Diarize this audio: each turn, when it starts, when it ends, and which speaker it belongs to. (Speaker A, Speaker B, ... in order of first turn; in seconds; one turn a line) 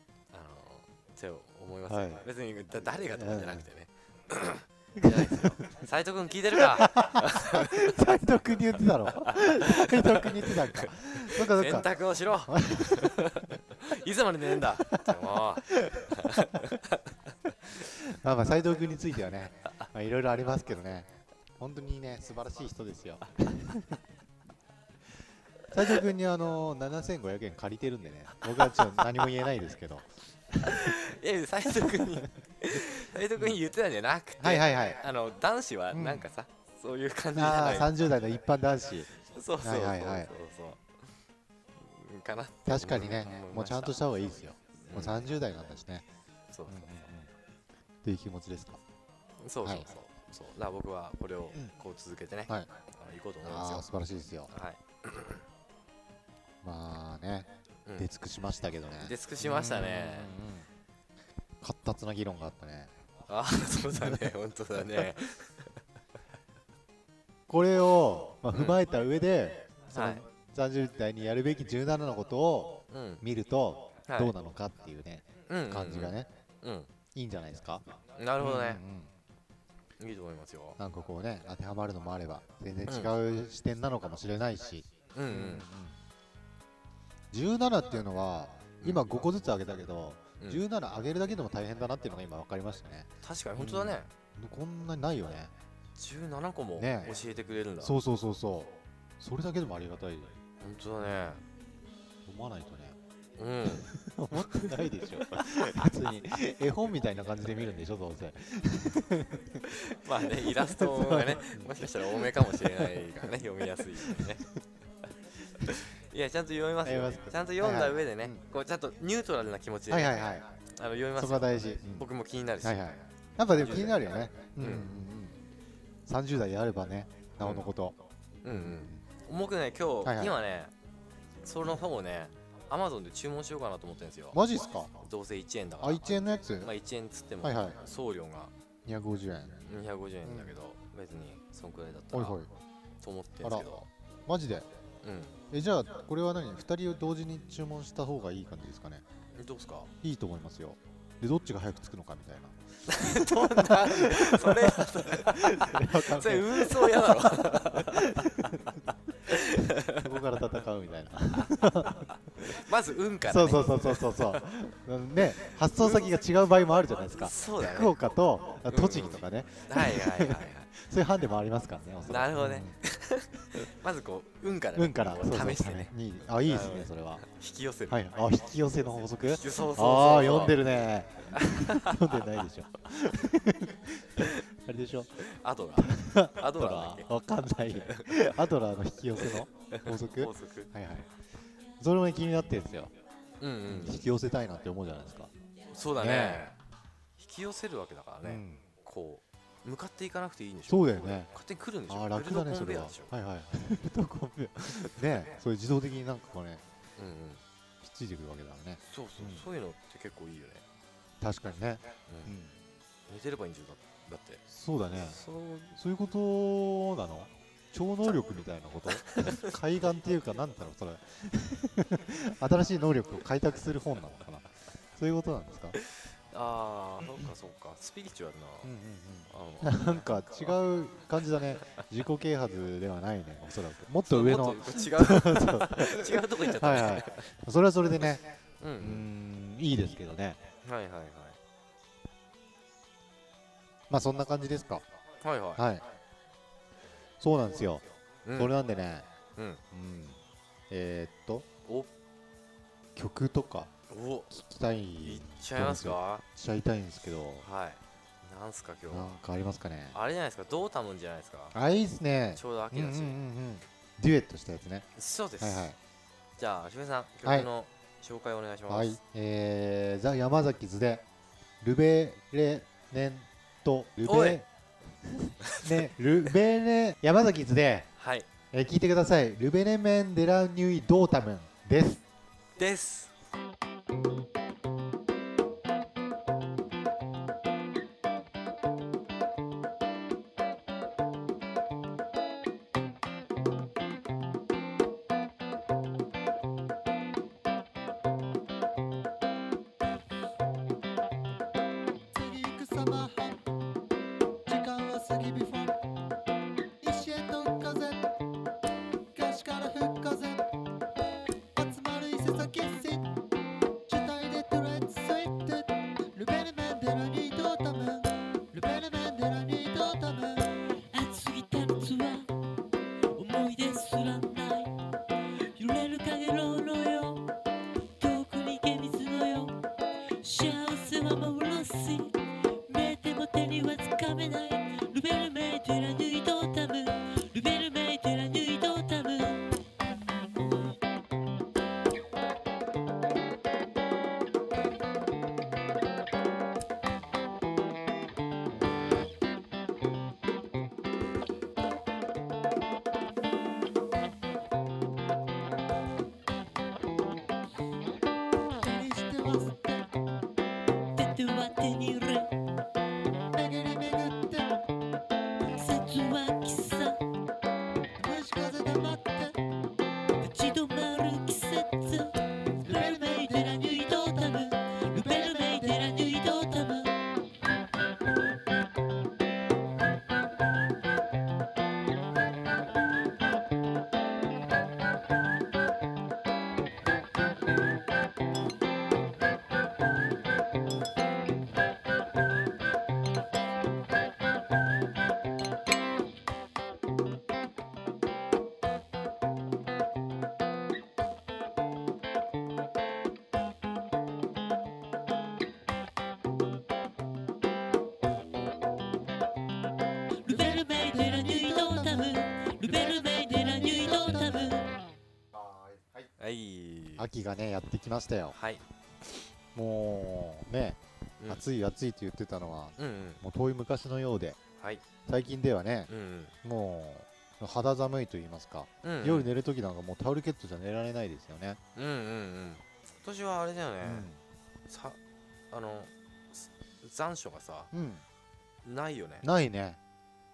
Speaker A: 0.3-8.0
Speaker B: 1.9-2.2
Speaker B: 3.1-3.6
Speaker B: 5.0-5.6
Speaker B: 6.5-11.9
Speaker A: 9.2-17.2
Speaker B: 12.5-13.4
Speaker B: 14.5-15.2
Speaker B: 17.8-24.0
Speaker B: 25.7-30.8
Speaker A: 30.6-38.1
Speaker B: 34.4-35.0
Speaker B: 35.9-36.3
Speaker B: 37.3-39.1
Speaker A: 39.2-40.8
Speaker B: 39.6-40.3
Speaker A: 41.8-44.0
Speaker B: 42.6-46.1
Speaker A: 44.8-45.4
Speaker A: 46.5-47.0
Speaker B: 46.7-47.3
Speaker B: 48.0-48.8
Speaker A: 49.4-53.9
Speaker B: 49.6-49.9
Speaker B: 53.4-54.5
Speaker A: 54.5-55.4
Speaker B: 56.6-60.7
Speaker A: 59.0-60.4
Speaker B: 61.6-62.9
Speaker A: 63.3-65.7
Speaker B: 67.5-76.3
Speaker A: 68.5-68.8
Speaker A: 69.9-70.2
Speaker A: 72.9-73.2
Speaker A: 74.1-74.3
Speaker A: 75.5-76.9
Speaker B: 77.1-79.1
Speaker A: 78.2-78.8
Speaker A: 80.0-80.8
Speaker B: 80.8-86.0
Speaker A: 82.9-83.1
Speaker A: 85.2-85.7
Speaker B: 87.3-95.5
Speaker A: 93.2-94.1
Speaker A: 96.0-98.0
Speaker B: 96.8-97.2
Speaker B: 97.8-100.4
Speaker A: 100.6-101.4
Speaker B: 102.2-103.0
Speaker A: 103.4-105.9
Speaker B: 103.9-113.3
Speaker A: 109.7-114.5
Speaker A: 115.6-124.0
Speaker B: 116.8-118.4
Speaker B: 119.9-120.5
Speaker B: 121.2-122.1
Speaker B: 122.6-125.4
Speaker A: 124.6-124.9
Speaker B: 126.1-129.0
Speaker A: 127.4-127.7
Speaker A: 128.4-130.7
Speaker B: 130.0-130.4
Speaker A: 131.4-134.4
Speaker B: 134.3-134.9
Speaker A: 135.0-138.5
Speaker B: 135.8-136.7
Speaker B: 137.4-137.8
Speaker B: 138.8-139.7
Speaker A: 139.7-142.4
Speaker B: 140.2-140.6
Speaker B: 142.1-142.5
Speaker A: 143.0-143.9
Speaker B: 143.4-144.7
Speaker A: 145.0-145.4
Speaker B: 145.5-149.1
Speaker A: 149.4-149.9
Speaker B: 150.0-158.8
Speaker A: 152.9-160.1
Speaker B: 159.3-162.6
Speaker A: 161.3-164.5
Speaker B: 163.2-172.8
Speaker A: 167.1-167.9
Speaker A: 168.7-170.7
Speaker A: 172.1-178.1
Speaker B: 174.8-177.2
Speaker B: 177.9-185.3
Speaker A: 179.2-182.3
Speaker A: 185.2-187.1
Speaker B: 185.8-191.1
Speaker A: 187.7-188.4
Speaker A: 189.2-190.7
Speaker B: 191.8-192.9
Speaker A: 193.4-194.1
Speaker B: 193.7-195.3
Speaker A: 195.7-196.6
Speaker B: 196.0-196.5
Speaker A: 197.2-203.1
Speaker B: 198.2-198.6
Speaker B: 200.7-201.3
Speaker B: 201.9-206.6
Speaker A: 204.7-205.0
Speaker A: 207.0-207.4
Speaker B: 207.8-209.4
Speaker A: 208.8-210.6
Speaker B: 211.2-212.6
Speaker A: 212.1-212.3
Speaker A: 213.1-215.8
Speaker B: 214.5-215.2
Speaker B: 215.7-225.8
Speaker A: 219.1-219.5
Speaker A: 226.0-228.7
Speaker B: 228.6-238.2
Speaker A: 229.3-230.5
Speaker A: 234.1-237.3
Speaker A: 238.6-239.1
Speaker B: 238.8-240.4
Speaker A: 240.6-241.4
Speaker B: 243.9-244.8
Speaker A: 245.2-245.7
Speaker B: 245.6-245.8
Speaker B: 247.2-249.1
Speaker A: 248.2-248.5
Speaker A: 249.4-249.6
Speaker B: 249.7-251.5
Speaker B: 252.9-253.7
Speaker A: 253.9-254.3
Speaker B: 254.3-257.5
Speaker A: 255.0-256.2
Speaker A: 257.4-259.2
Speaker B: 258.9-260.0
Speaker A: 259.9-261.6
Speaker B: 261.5-264.9
Speaker A: 262.4-263.2
Speaker A: 265.0-265.7
Speaker B: 265.4-265.8
Speaker A: 266.4-269.0
Speaker B: 268.7-271.1
Speaker B: 271.6-274.5
Speaker A: 274.0-274.4
Speaker B: 275.0-277.9
Speaker A: 275.4-275.9
Speaker A: 278.0-278.3
Speaker B: 278.5-282.0
Speaker A: 282.6-283.1
Speaker C: 302.1-303.4
Speaker C: 304.5-305.7
Speaker C: 306.8-308.1
Speaker C: 309.1-310.4
Speaker C: 311.6-313.1
Speaker C: 313.9-320.4
Speaker D: 320.9-322.3
Speaker D: 323.1-324.7
Speaker D: 325.6-327.2
Speaker D: 328.0-329.6
Speaker D: 330.2-332.1
Speaker D: 332.7-339.4
Speaker C: 358.6-359.9
Speaker D: 361.0-362.3
Speaker C: 363.3-364.6
Speaker D: 365.6-367.0
Speaker C: 368.0-369.4
Speaker D: 370.2-372.1
Speaker C: 372.6-374.4
Speaker D: 372.6-376.9
Speaker C: 375.1-375.8
Speaker D: 410.3-414.7
Speaker C: 410.4-412.2
Speaker C: 412.9-414.4
Speaker A: 416.2-417.1
Speaker B: 417.0-418.4
Speaker A: 418.3-418.6
Speaker B: 419.5-424.4
Speaker A: 422.8-423.2
Speaker A: 424.6-424.8
Speaker B: 425.1-425.9
Speaker A: 425.9-426.3
Speaker B: 426.4-431.6
Speaker A: 428.8-429.3
Speaker A: 431.8-434.1
Speaker B: 433.8-434.2
Speaker A: 434.7-435.0
Speaker A: 435.5-437.7
Speaker B: 437.7-438.0
Speaker A: 438.6-439.3
Speaker B: 439.2-439.8